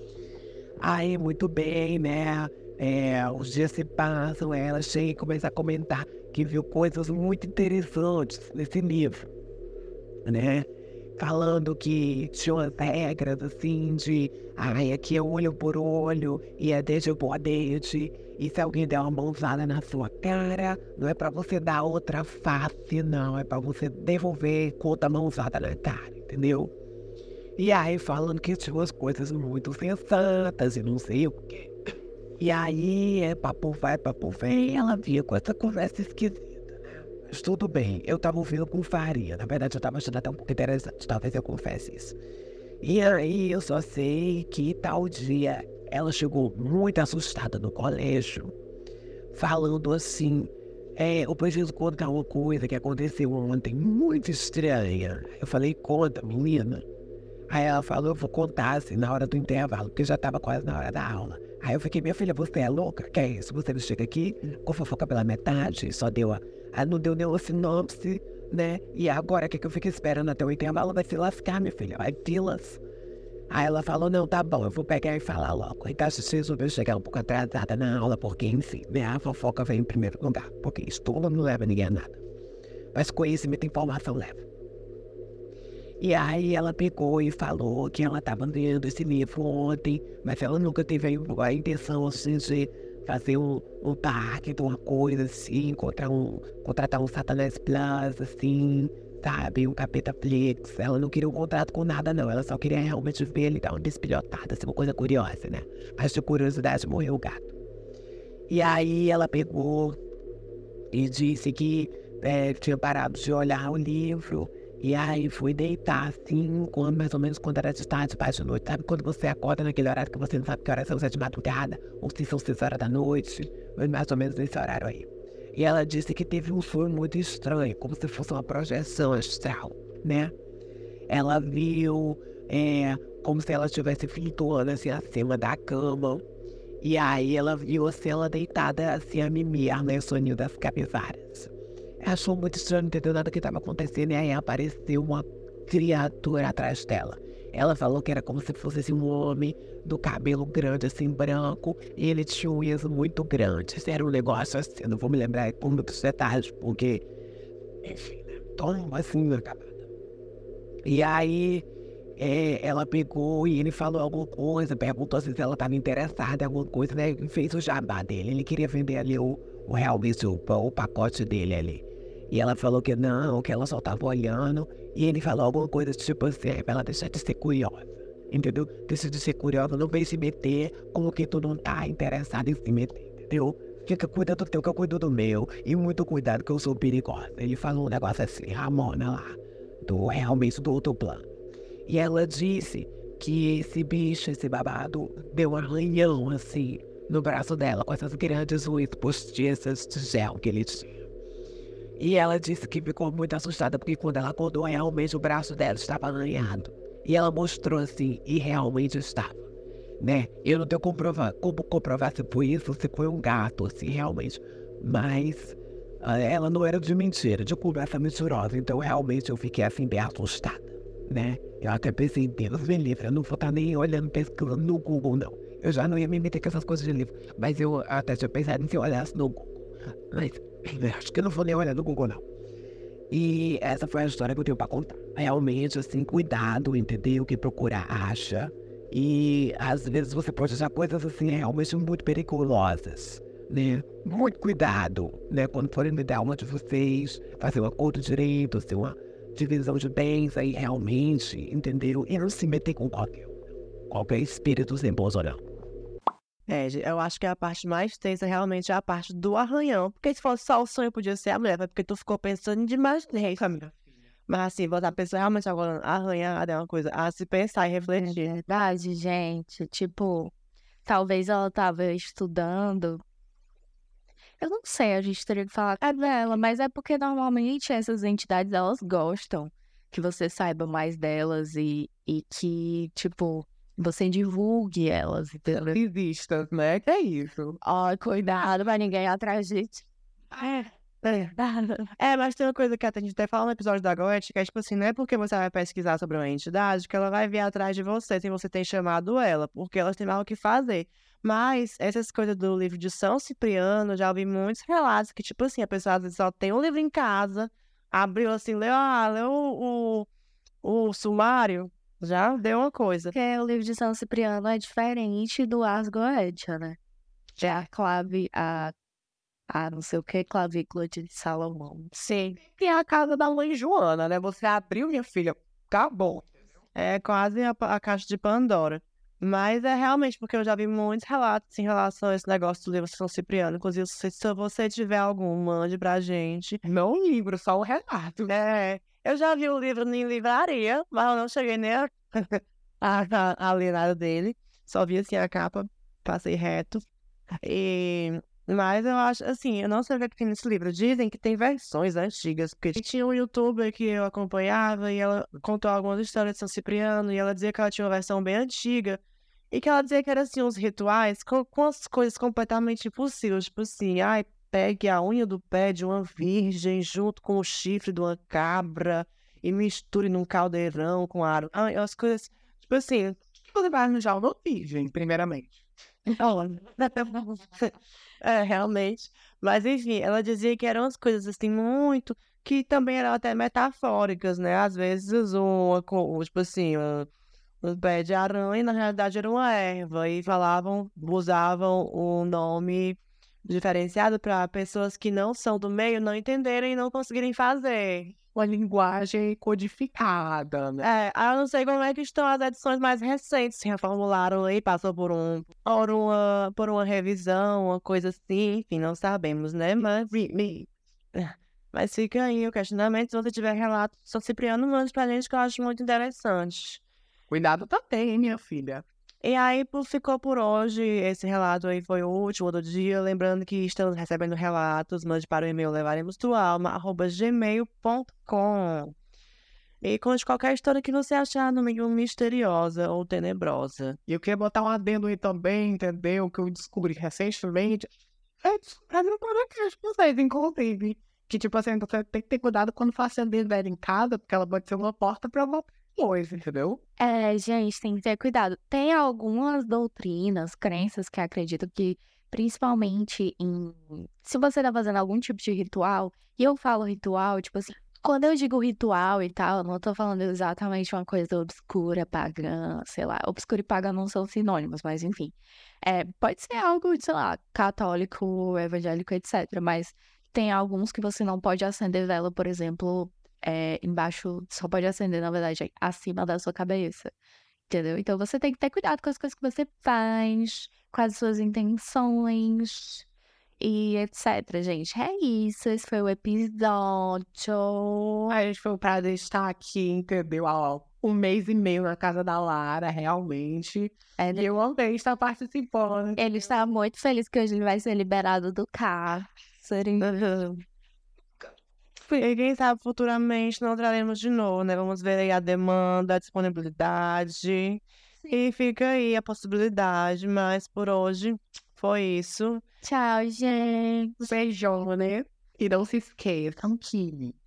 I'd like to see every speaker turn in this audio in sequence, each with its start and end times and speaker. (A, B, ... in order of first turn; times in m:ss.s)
0:00.8-0:09.3 A
0:10.2-0:10.6 A
0:11.2-0:26.7 A
0:27.6-0:31.7 A
0:32.4-0:42.2 A
0:42.8-0:48.5 A
0:49.3-0:56.8 A
0:57.5-1:12.8 A
1:13.5-1:22.2 A
1:22.9-1:24.4 A
1:26.0-1:47.5 A
1:48.5-1:50.0 A
1:50.9-2:10.3 A
2:11.1-2:16.2 A
2:16.8-2:21.5 A
2:22.0-2:37.0 A
2:37.8-2:39.8 A
2:40.8-2:41.6 A
2:42.2-3:11.3 A
3:11.8-3:20.9 A
3:22.0-3:29.4 A
3:30.0-3:52.2 A
3:53.1-4:13.4 A
4:13.9-4:15.4 A
4:16.5-4:23.7 B
4:24.3-4:28.2 B
4:28.0-4:30.3 C
4:30.8-4:33.0 C
4:34.4-4:45.8 C
4:45.7-4:47.6 D
4:47.6-4:49.8 C
4:51.2-4:51.8 C
4:52.0-5:10.1 B
5:10.6-5:13.1 B
5:13.1-5:16.8 C
5:17.4-5:18.7 C
5:19.5-5:21.9 C
5:21.9-5:26.3 D
5:26.7-5:36.6 B
5:36.6-5:38.3 D
5:38.3-5:46.8 B
5:47.4-6:13.2 B
6:13.5-6:15.6 D
6:16.1-6:27.1 B
6:27.6-6:38.1 B
6:38.3-6:40.8 D
6:40.8-6:56.8 B
6:57.3-6:58.8 D
6:59.2-7:08.9 B
7:09.8-7:14.0 B
7:14.1-7:17.9 D
7:18.4-7:26.8 D
7:27.0-7:57.1 C
7:57.7-8:03.0 C
8:03.6-8:08.3 C
8:08.3-8:16.2 D
8:14.2-8:14.5 C
8:16.2-8:20.2 C
8:20.0-8:20.6 B
8:22.1-8:32.6 B
8:32.8-8:34.1 C
8:34.2-8:37.3 D